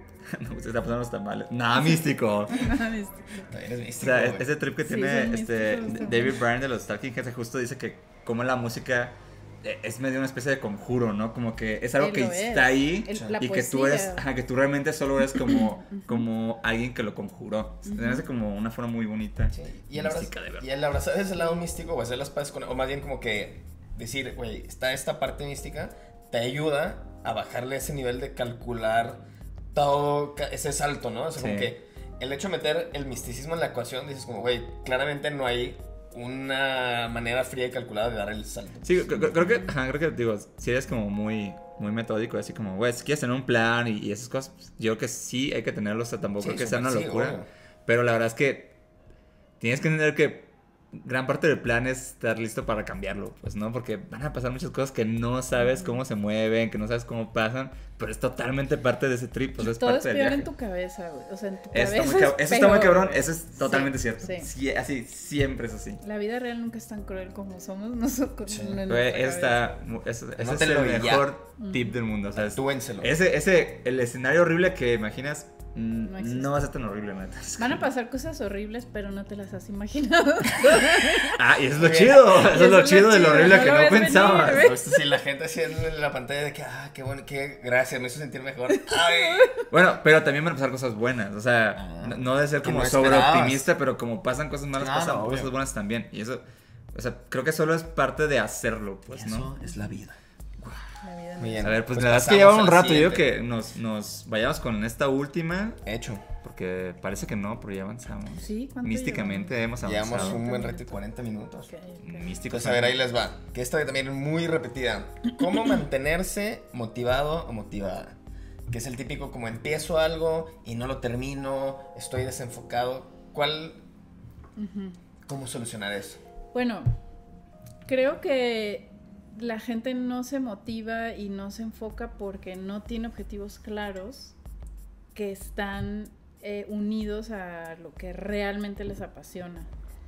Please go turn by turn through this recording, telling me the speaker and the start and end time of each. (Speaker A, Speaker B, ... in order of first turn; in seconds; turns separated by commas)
Speaker A: 0.2-2.8, Speaker B: 2.5-3.5, Speaker C: 3.5-4.5, Speaker A: 4.0-20.7, Speaker B: 4.8-6.4, Speaker B: 12.0-14.2, Speaker C: 13.1-13.4, Speaker B: 15.3-16.2, Speaker B: 17.9-18.2, Speaker C: 19.5-38.9, Speaker A: 31.4-31.7, Speaker A: 38.8-48.8, Speaker B: 39.4-39.7, Speaker C: 46.4-47.5, Speaker A: 49.6-60.5, Speaker B: 55.6-56.0, Speaker B: 59.6-64.5, Speaker A: 61.7-66.0, Speaker B: 66.0-69.8, Speaker C: 68.5-68.8, Speaker A: 68.9-77.8, Speaker C: 70.4-71.3, Speaker B: 71.6-72.0, Speaker C: 72.4-73.1, Speaker B: 76.0-76.5, Speaker B: 77.6-81.4, Speaker A: 81.2-84.9, Speaker C: 81.7-82.4, Speaker B: 82.4-84.8, Speaker C: 84.4-89.5, Speaker B: 88.7-89.6, Speaker A: 89.7-96.4, Speaker C: 91.8-93.7, Speaker C: 94.8-95.5, Speaker A: 96.9-99.5, Speaker C: 99.1-100.2, Speaker B: 101.0-101.7, Speaker C: 101.4-103.3, Speaker A: 101.6-105.8, Speaker C: 105.8-106.2, Speaker A: 106.4-110.4, Speaker B: 108.4-110.9, Speaker C: 109.8-111.7, Speaker B: 111.7-112.3, Speaker A: 112.0-113.0, Speaker C: 112.5-118.2, Speaker C: 118.7-123.8, Speaker B: 124.6-125.0, Speaker C: 125.2-126.2, Speaker B: 126.5-126.9, Speaker B: 127.8-134.3, Speaker B: 135.1-139.7